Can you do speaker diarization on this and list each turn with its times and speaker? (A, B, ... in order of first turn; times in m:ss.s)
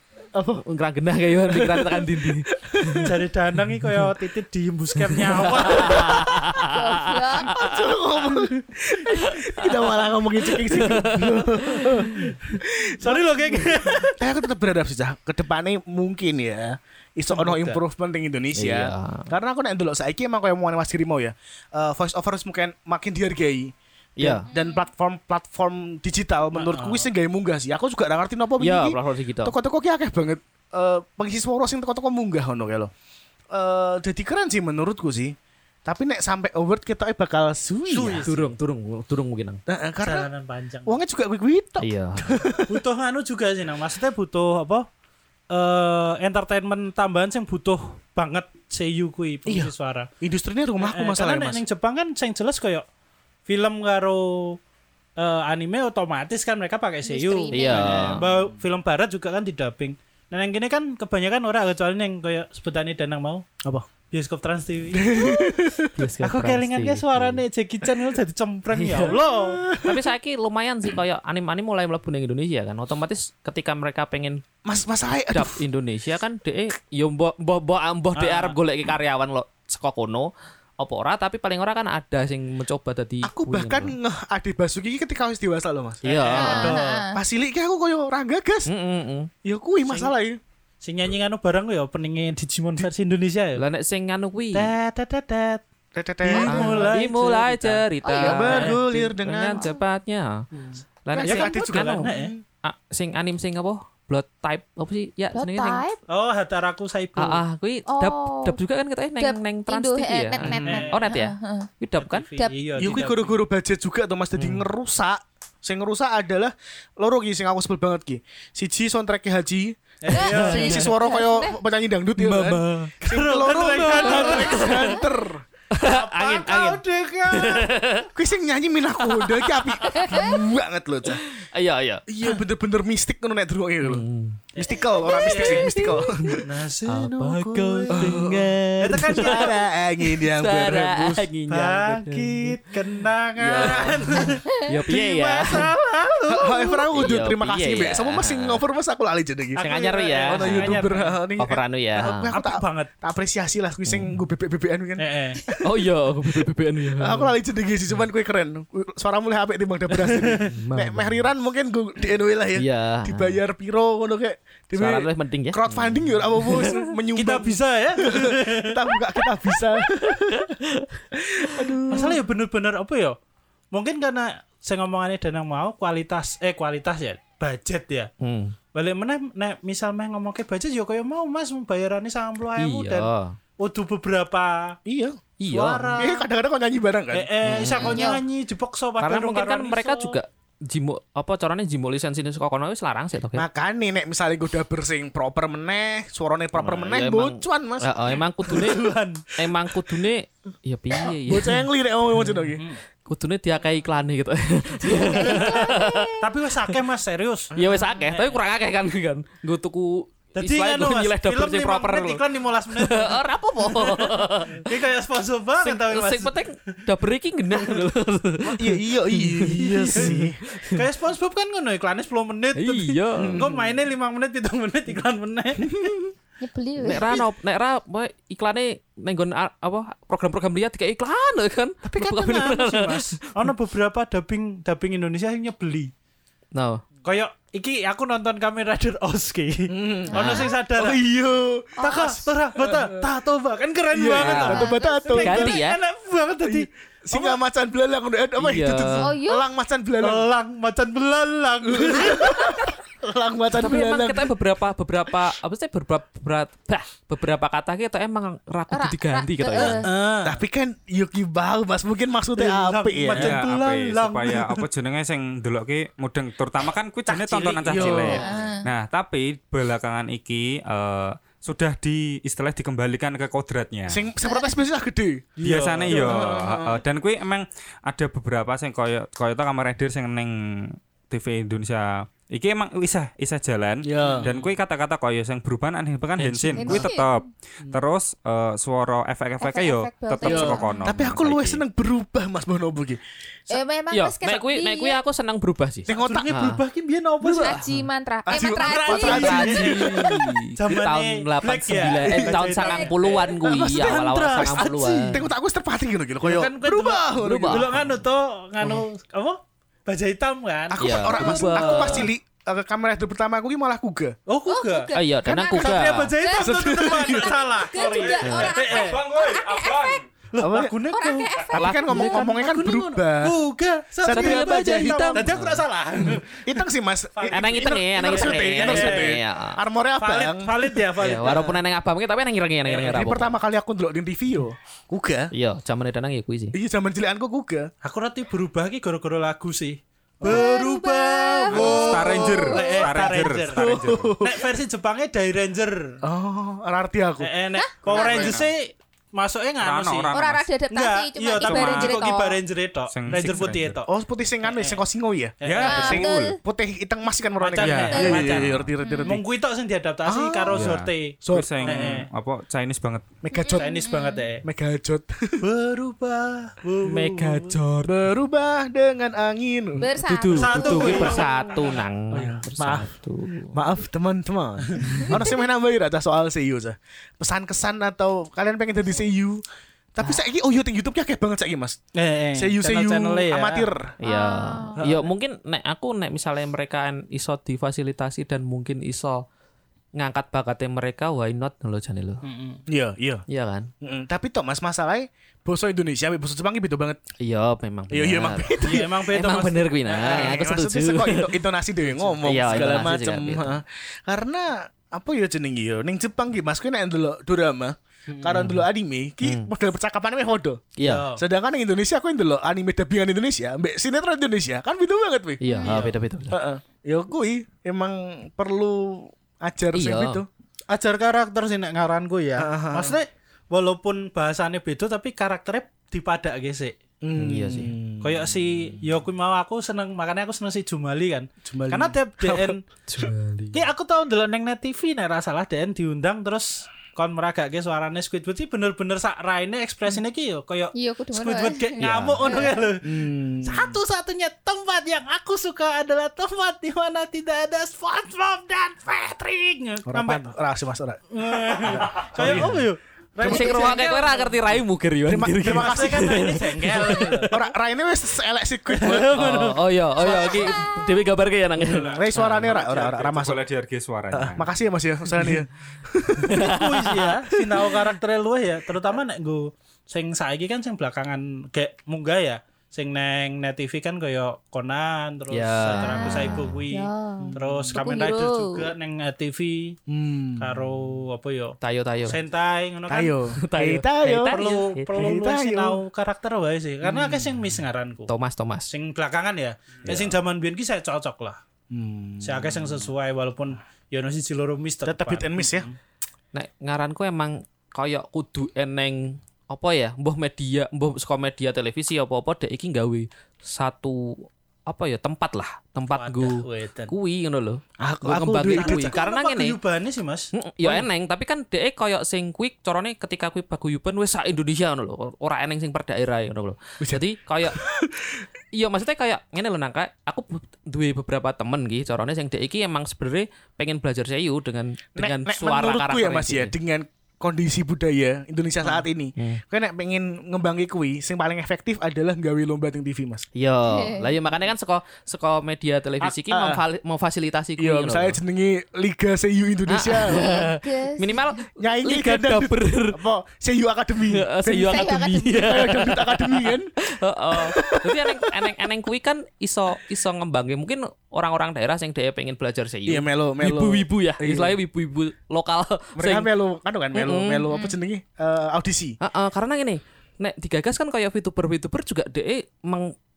0:00.3-0:00.6 A
0:00.6-0:03.0 B
0:01.5-0:03.1 A
0:03.0-0:06.3 C
0:05.1-0:07.8 B
0:05.8-0:06.3 A
0:06.6-0:07.7 D
0:07.4-0:32.9 A
0:09.1-0:12.3 B
0:13.0-0:14.2 C
0:17.3-0:17.8 C
0:18.5-0:19.3 B
0:24.2-0:24.4 B
0:24.5-0:24.8 D
0:26.5-0:27.1 C
0:28.6-0:29.5 B
0:33.5-0:38.3 A
0:37.9-0:38.5 C
0:38.2-0:39.6 B
0:39.7-0:40.3 A
0:40.0-0:41.0 C
0:40.8-0:42.8 A
0:41.8-0:42.4 B
0:42.7-0:44.8 C
0:45.5-0:50.1 C
0:49.4-0:51.6 A
0:50.8-0:52.8 C
0:53.5-0:54.6 C
0:55.2-1:03.4 C
0:57.0-0:58.2 D
0:57.5-0:58.2 B
1:04.1-1:05.5 C
1:04.9-1:05.9 A
1:05.9-1:07.4 B
1:06.2-1:09.6 C
1:08.7-1:09.2 B
1:09.3-1:10.0 A
1:09.8-1:14.4 B
1:14.6-1:15.6 A
1:15.3-1:23.9 B
1:18.1-1:18.6 C
1:23.2-1:28.7 A
1:26.0-1:26.8 B
1:26.0-1:27.0 C
1:26.3-1:27.2 D
1:28.6-1:29.3 B
1:29.4-1:30.4 A
1:30.8-1:33.6 C
1:33.6-1:34.7 B
1:34.5-1:35.6 C
1:35.9-1:37.0 A
1:36.2-1:37.8 C
1:36.3-1:40.4 B
1:38.0-1:38.6 D
1:38.2-1:39.7 A
1:38.5-1:38.8 C
1:40.5-1:42.3 C
1:41.0-1:42.1 B
1:41.1-1:42.4 A
1:42.6-1:45.8 B
1:45.3-1:46.0 D
1:46.1-1:47.4 C
1:47.2-1:52.3 B
1:47.9-1:48.6 D
1:49.2-1:51.7 D
1:50.4-1:51.1 C
1:52.0-1:53.4 C
1:52.8-2:05.4 A
1:54.4-1:54.6 B
2:00.0-2:00.9 C
2:00.1-2:01.6 D
2:02.2-2:02.9 B
2:03.0-2:05.0 C
2:03.8-2:05.0 B
2:05.7-2:08.1 B
2:05.8-2:07.9 C
2:08.1-2:11.2 A
2:09.1-2:10.3 B
2:10.0-2:10.3 D
2:11.0-2:12.1 B
2:12.1-2:16.4 A
2:13.8-2:14.4 B
2:14.5-2:15.8 C
2:15.1-2:16.0 D
2:16.0-2:19.5 B
2:16.4-2:18.3 C
2:17.9-2:21.3 A
2:18.8-2:19.6 C
2:20.0-2:22.6 B
2:21.5-2:26.8 C
2:23.4-2:24.3 A
2:23.5-2:25.7 B
2:26.3-2:35.8 A
2:26.9-2:28.6 B
2:29.6-2:31.2 C
2:29.6-2:30.8 B
2:31.4-2:32.3 B
2:32.0-2:32.9 C
2:33.8-2:34.2 B
2:35.0-2:35.4 C
2:35.6-2:37.3 B
2:37.0-2:50.5 A
2:40.1-2:40.5 C
2:40.4-2:41.2 B
2:42.5-2:43.4 B
2:44.7-2:46.8 B
2:47.1-2:48.8 C
2:49.8-2:51.0 B
2:51.1-2:52.2 A
2:51.6-2:51.9 B
2:51.9-2:53.2 C
2:53.7-2:58.1 C
2:58.2-2:58.5 B
2:58.7-3:03.1 C
3:02.6-3:03.4 B
3:03.6-3:04.8 C
3:04.8-3:05.2 A
3:05.4-3:05.9 B
3:05.5-3:06.2 C
3:05.9-3:07.3 A
3:07.1-3:10.2 C
3:07.4-3:08.1 B
3:07.8-3:08.2 D
3:09.0-3:13.4 B
3:13.3-3:18.8 A
3:16.5-3:21.6 B
3:18.5-3:19.2 C
3:21.0-3:22.6 A
3:22.2-3:22.5 B
3:23.0-3:26.2 B
3:24.9-3:27.5 C
3:25.0-3:25.8 D
3:27.5-3:27.8 A
3:27.5-3:32.2 B
3:28.1-3:28.4 C
3:30.3-3:36.4 C
3:32.7-3:34.6 B
3:35.6-3:40.8 B
3:38.4-3:40.4 A
3:39.6-3:40.2 C
3:40.7-3:45.9 C
3:42.5-3:43.4 B
3:43.2-3:43.7 A
3:45.6-3:46.1 A
3:46.4-3:47.1 D
3:46.8-3:53.4 B
3:51.8-3:55.9 C
3:56.5-3:56.8 B
3:57.0-4:01.0 C
3:59.7-4:03.0 A
4:00.1-4:00.5 D
4:00.1-4:00.5 B
4:01.8-4:02.1 D
4:01.8-4:07.4 C
4:03.9-4:05.6 A
4:04.2-4:05.8 B
4:04.4-4:05.3 D
4:06.4-4:10.3 A
4:08.4-4:09.1 B
4:09.0-4:09.4 D
4:10.0-4:12.7 C
4:11.6-4:14.3 A
4:13.5-4:19.8 B
4:18.7-4:19.9 D
4:19.6-4:20.4 C
4:19.6-4:23.4 A
4:22.4-4:24.6 C
4:23.1-4:34.0 E
4:27.1-4:28.3 C
4:27.6-4:28.3 A
4:28.1-4:28.6 D
4:33.9-4:35.3 A
4:34.2-4:34.6 D
4:35.4-4:36.3 C
4:35.4-4:51.6 E
4:35.8-4:36.8 A
4:43.8-4:44.3 A
4:46.2-4:46.9 B
4:46.6-4:47.1 D
4:49.4-4:50.9 D
4:50.2-4:53.0 A
4:53.5-4:55.0 D
4:53.9-4:56.6 B
4:55.9-4:56.5 A
4:55.9-4:57.6 C
4:57.2-4:57.6 A
4:57.4-4:59.6 D
4:58.2-5:00.4 A
4:58.6-5:05.2 C
4:59.0-5:05.2 B
5:02.5-5:02.9 D
5:03.4-5:07.8 A
5:06.2-5:11.5 C
5:07.2-5:07.9 B
5:10.7-5:14.1 A
5:10.8-5:12.1 B
5:11.2-5:12.0 D
5:14.3-5:14.9 C
5:14.5-5:20.0 D
5:14.9-5:16.1 B
5:15.5-5:19.0 C
5:16.4-5:17.4 A
5:18.2-5:18.5 B
5:18.4-5:20.0 E
5:20.3-5:26.6 C
5:20.4-5:20.7 A
5:20.9-5:22.2 D
5:21.4-5:23.4 A
5:21.5-5:22.3 B
5:24.0-5:25.4 A
5:24.1-5:25.6 B
5:26.1-5:30.8 A
5:27.2-5:29.2 C
5:27.3-5:29.6 B
5:30.0-5:31.6 C
5:31.0-5:33.4 B
5:32.7-5:35.3 A
5:32.7-5:33.0 C
5:35.3-5:36.6 B
5:36.5-5:37.7 A
5:37.8-5:46.0 C
5:40.2-5:43.3 D
5:41.5-5:44.2 E
5:43.5-5:44.4 A
5:46.0-5:47.3 A
5:47.2-5:50.1 C
5:47.6-5:48.4 D
5:47.9-5:48.5 E
5:49.6-5:50.5 E
5:50.1-5:52.4 D
5:50.7-5:53.9 C
5:51.4-5:52.1 E
5:52.9-5:53.8 E
5:53.9-5:59.2 A
5:54.4-5:54.8 C
5:55.4-5:56.0 C
5:55.4-5:56.4 E
5:55.6-5:56.4 D
5:57.4-6:02.1 C
5:57.6-5:57.9 B
5:57.8-5:59.2 D
6:00.0-6:02.0 A
6:00.5-6:03.2 E
6:03.2-6:03.9 A
6:03.3-6:04.2 D
6:03.5-6:04.4 C
6:04.4-6:05.4 A
6:05.4-6:07.6 C
6:06.8-6:08.1 B
6:07.9-6:09.9 A
6:09.8-6:11.7 D
6:10.0-6:13.6 B
6:10.3-6:12.9 C
6:13.5-6:21.8 A
6:14.8-6:15.1 B
6:21.9-6:23.7 C
6:22.4-6:23.9 A
6:24.0-6:29.2 B
6:24.0-6:24.8 D
6:24.8-6:25.1 C
6:30.0-6:32.2 B
6:32.2-6:32.6 C
6:32.7-6:33.2 A
6:33.3-6:33.7 B
6:33.8-6:37.0 A
6:37.2-6:41.4 B
6:37.9-6:38.9 A
6:38.6-6:40.4 C
6:39.9-7:00.3 A
6:42.2-6:43.6 B
6:48.1-6:48.6 B
6:49.2-6:49.5 B
6:50.8-6:51.0 B
6:50.8-6:51.2 C
6:55.4-6:56.4 B
6:55.4-6:55.7 D
6:55.6-6:55.9 C
6:59.7-7:00.2 B
7:00.7-7:06.7 C
7:02.4-7:03.0 A
7:07.0-7:08.8 A
7:07.2-7:07.8 B
7:08.0-7:12.7 C
7:11.4-7:12.5 A
7:12.9-7:13.7 B
7:13.5-7:30.3 C
7:20.7-7:22.7 D
7:21.8-7:22.2 A
7:22.8-7:23.8 A
7:29.9-7:32.7 A
7:31.1-7:34.6 C
7:32.2-7:32.5 B
7:33.2-7:33.8 A
7:33.2-7:37.4 B
7:35.1-7:36.2 A
7:35.4-7:37.3 C
7:37.3-7:39.4 A
7:38.7-7:39.5 C
7:39.1-7:42.5 B
7:40.0-7:40.4 C
7:40.4-7:40.7 D
7:41.7-7:44.5 E
7:41.8-7:43.4 A
7:44.1-7:46.4 A
7:46.2-7:46.9 B
7:46.4-7:59.8 C
7:47.4-7:47.8 A
7:55.3-7:56.4 B
7:55.8-7:58.7 D
7:57.2-7:57.8 A
7:59.9-8:00.7 A
8:00.4-8:01.6 C
8:01.6-8:02.2 B
8:02.1-8:03.2 C
8:02.9-8:05.8 A
8:03.4-8:04.8 B
8:04.3-8:08.1 C
8:06.8-8:07.2 A
8:08.1-8:08.7 B
8:08.7-8:11.4 C
8:09.8-8:10.2 A
8:11.7-8:12.9 A
8:12.2-8:15.7 C
8:14.8-8:15.7 A
8:16.3-8:29.6 B
8:25.9-8:26.9 C
8:27.8-8:29.0 A
8:28.5-8:30.3 C
8:30.3-8:37.6 B
8:36.8-8:38.2 A
8:38.5-8:46.5 B
8:45.0-8:53.2 A
8:53.3-8:58.2 B
8:53.7-8:54.2 D
8:56.0-8:56.6 A
8:57.6-9:00.4 A
8:59.7-9:03.0 B
9:00.1-9:01.3 D
9:01.6-9:06.7 A
9:04.1-9:16.3 B
9:04.6-9:05.3 D
9:07.3-9:08.5 A
9:12.9-9:14.6 A
9:16.0-9:19.0 A
9:16.9-9:17.4 B
9:17.5-9:17.8 D
9:19.0-9:22.9 B